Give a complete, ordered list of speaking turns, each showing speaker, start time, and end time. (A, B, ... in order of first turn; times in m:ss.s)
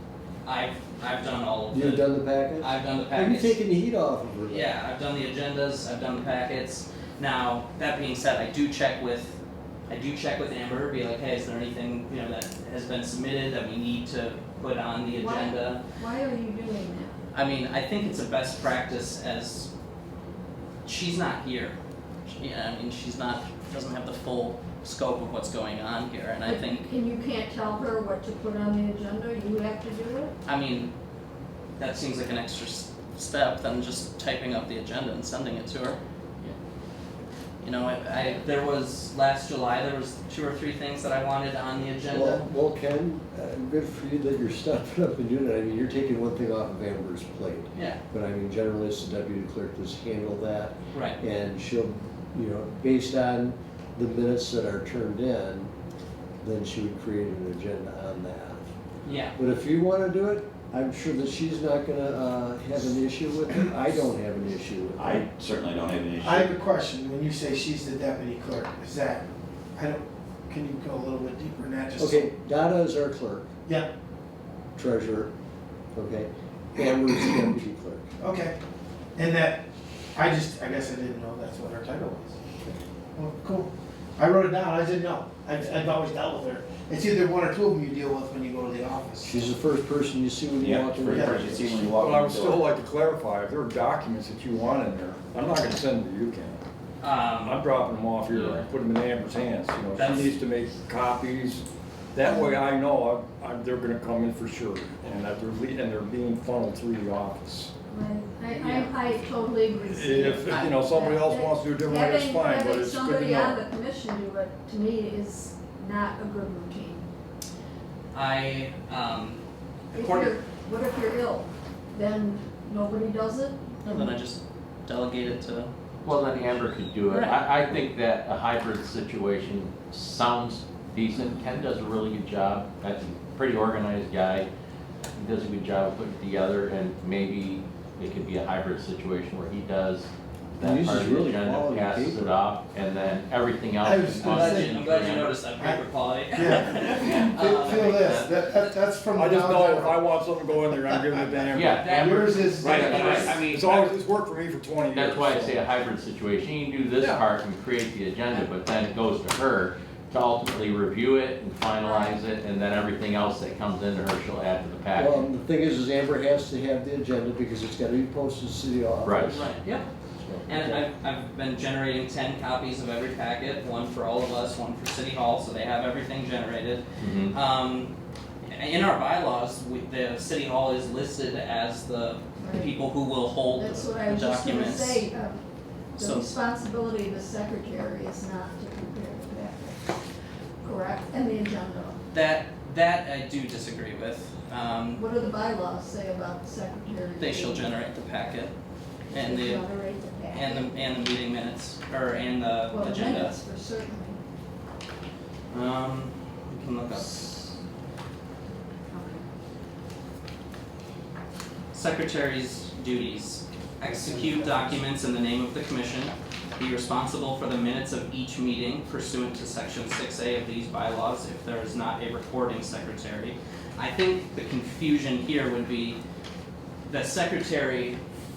0:00.4-0:03.6 A
0:01.7-0:04.6 B
0:04.5-0:09.4 A
0:09.9-0:15.8 A
0:15.1-0:17.2 C
0:17.3-0:19.7 A
0:20.8-0:21.8 A
0:22.3-0:26.8 A
0:26.4-0:30.3 C
0:30.4-0:30.9 A
0:31.8-0:36.0 A
0:37.6-0:42.4 A
0:42.1-0:55.7 B
0:50.9-0:51.2 A
0:56.4-0:58.6 B
0:59.0-0:59.3 A
0:59.4-1:05.2 B
1:05.0-1:06.5 D
1:06.2-1:12.3 E
1:12.0-1:13.5 B
1:14.8-1:15.3 B
1:15.9-1:18.1 B
1:18.2-1:18.6 E
1:19.2-1:19.6 E
1:20.1-1:22.4 E
1:23.1-1:29.5 E
1:29.2-1:31.8 B
1:30.6-1:32.7 D
1:32.0-1:36.6 F
1:37.0-1:37.6 A
1:37.4-1:47.7 F
1:38.3-1:38.6 G
1:40.0-1:40.3 A
1:42.2-1:42.6 C
1:47.9-1:57.0 C
1:49.8-1:53.6 F
1:58.1-1:59.4 A
1:59.9-2:00.3 A
1:59.9-2:04.1 C
2:03.8-2:05.7 A
2:06.0-2:14.5 G
2:07.1-2:07.4 A
2:15.2-2:25.4 G
2:20.6-2:22.3 B
2:23.8-2:24.9 E
2:24.2-2:28.0 A
2:25.5-2:25.8 E
2:26.3-2:30.0 E
2:27.6-2:28.4 G
2:29.1-2:35.6 F
2:31.5-2:32.0 G
2:31.8-2:33.9 A
2:31.9-2:33.4 E
2:32.6-2:33.4 G
2:34.9-2:45.2 G
2:41.8-2:42.2 C
2:44.9-2:49.6 B
2:49.0-2:49.5 G
2:49.3-2:49.9 A
2:50.2-2:50.8 B
2:50.5-2:57.9 A
2:57.0-2:57.3 G
2:58.5-3:05.0 A
3:02.4-3:02.8 C
3:03.5-3:09.9 C
3:06.0-3:06.4 A
3:10.6-3:12.0 C
3:12.1-3:15.0 A
3:14.9-3:17.7 C
3:17.2-3:18.5 A
3:19.1-3:20.7 C
3:19.1-3:19.6 A
3:20.3-3:23.4 A
3:22.7-3:24.2 C
3:25.5-3:27.2 A
3:28.9-3:29.2 C
3:31.7-3:46.0 A
3:46.9-3:48.0 A